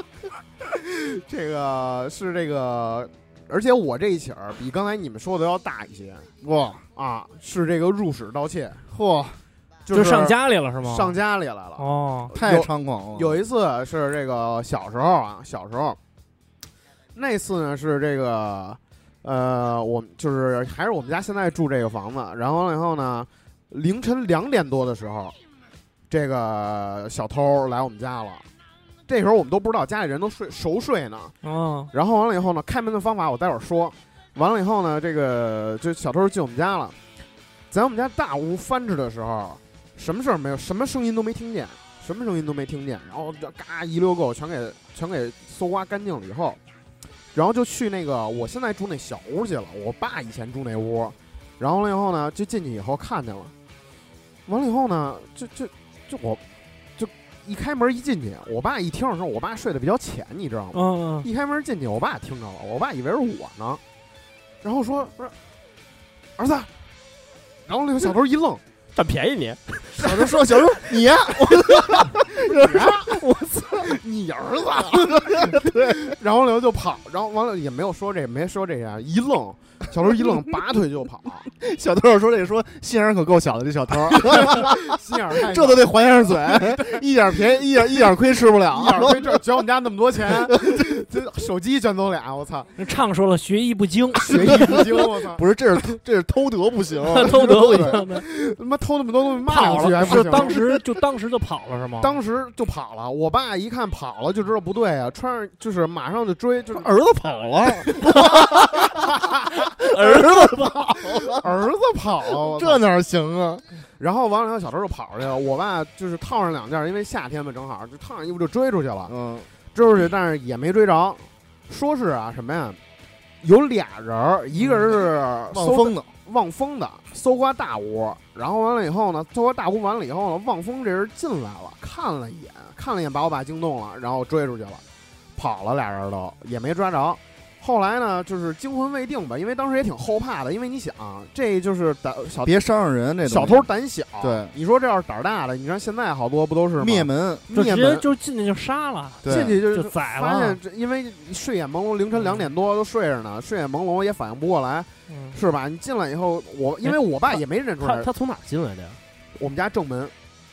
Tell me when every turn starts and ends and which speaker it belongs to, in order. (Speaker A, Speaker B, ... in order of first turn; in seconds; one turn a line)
Speaker A: 0.7-6.3
Speaker B: 6.4-6.8
Speaker A: 6.9-8.8
Speaker B: 8.9-9.4
Speaker A: 9.8-16.0
Speaker C: 9.9-11.2
Speaker C: 11.8-12.3
Speaker B: 12.3-13.4
Speaker A: 17.1-25.3
Speaker A: 26.1-28.4
Speaker A: 29.1-31.3
Speaker C: 31.4-31.9
Speaker A: 31.9-37.0
Speaker A: 37.7-46.6
Speaker A: 47.3-53.5
Speaker A: 54.5-56.4
Speaker A: 57.0-63.8
Speaker C: 60.7-61.3
Speaker A: 64.6-65.3
Speaker A: 66.4-66.7
Speaker A: 67.7-68.6
Speaker D: 68.9-70.1
Speaker B: 70.0-74.0
Speaker A: 72.0-73.2
Speaker A: 73.7-81.5
Speaker B: 74.8-76.1
Speaker B: 81.5-89.4
Speaker A: 84.1-87.0
Speaker A: 88.7-92.7
Speaker B: 90.3-90.9
Speaker C: 92.8-94.8
Speaker A: 94.2-95.4
Speaker B: 94.3-98.0
Speaker C: 97.1-98.2
Speaker A: 97.2-100.6
Speaker C: 99.5-102.2
Speaker B: 99.5-100.8
Speaker A: 102.0-106.9
Speaker B: 106.7-109.0
Speaker A: 107.8-108.2
Speaker A: 109.0-109.3
Speaker B: 109.9-111.4
Speaker A: 110.0-110.2
Speaker A: 111.2-112.8
Speaker B: 112.3-113.6
Speaker A: 114.0-119.1
Speaker B: 119.1-119.5
Speaker A: 119.7-122.8
Speaker A: 123.4-134.8
Speaker C: 124.6-124.8
Speaker B: 125.5-126.1
Speaker A: 135.3-142.6
Speaker B: 142.4-143.7
Speaker A: 143.2-148.0
Speaker B: 144.2-144.5
Speaker B: 146.8-147.5
Speaker C: 147.5-150.6
Speaker B: 149.2-149.6
Speaker A: 149.2-158.1
Speaker C: 152.2-152.4
Speaker C: 155.1-155.4
Speaker D: 156.8-159.0
Speaker A: 159.3-160.1